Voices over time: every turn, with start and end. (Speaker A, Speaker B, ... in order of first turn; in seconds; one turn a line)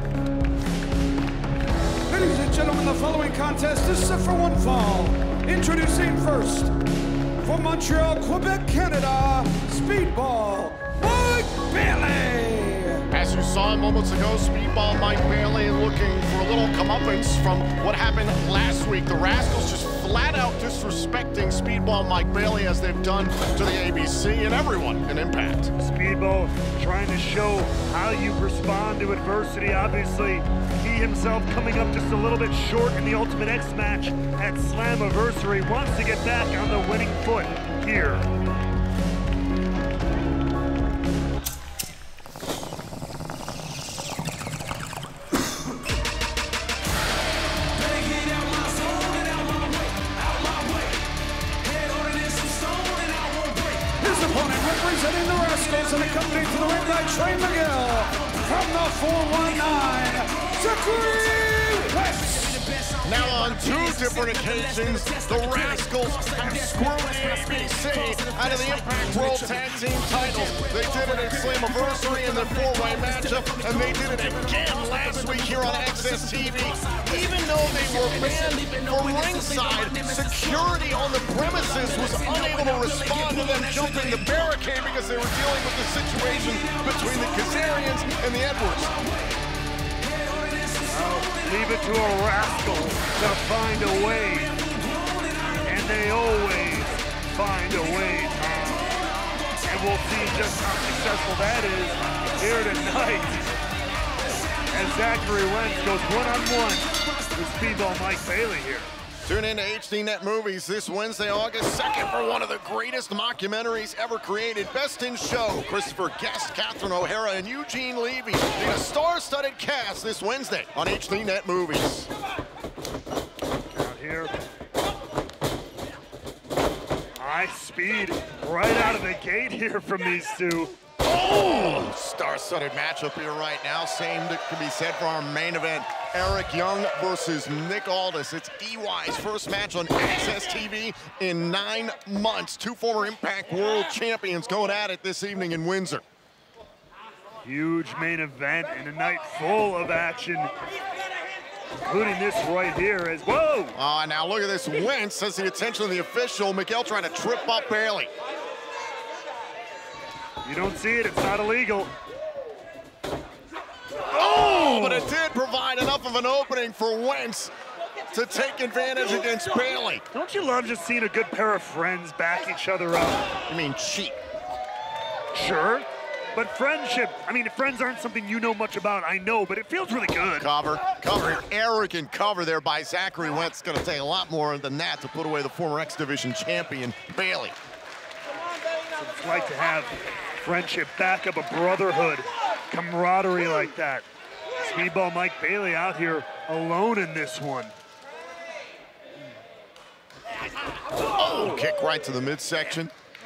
Speaker A: 2.1-6.7
Speaker A: 7.4-13.1
Speaker B: 13.1-25.7
Speaker C: 25.8-38.3
Speaker A: 53.9-62.8
Speaker B: 63.0-89.0
Speaker C: 90.8-94.6
Speaker C: 95.5-99.0
Speaker C: 99.6-103.4
Speaker C: 104.7-108.9
Speaker B: 109.2-122.1
Speaker C: 123.7-124.3
Speaker C: 127.2-130.7
Speaker B: 131.0-146.0
Speaker C: 147.4-150.5
Speaker C: 151.9-153.8
Speaker B: 153.7-158.1
Speaker C: 160.4-161.9
Speaker B: 164.1-167.5
Speaker C: 164.2-165.1
Speaker B: 168.1-170.0
Speaker C: 170.1-173.2
Speaker B: 173.5-174.2
Speaker C: 175.3-180.5
Speaker B: 180.4-187.6
Speaker C: 189.0-194.1
Speaker C: 194.6-197.8
Speaker B: 201.2-202.9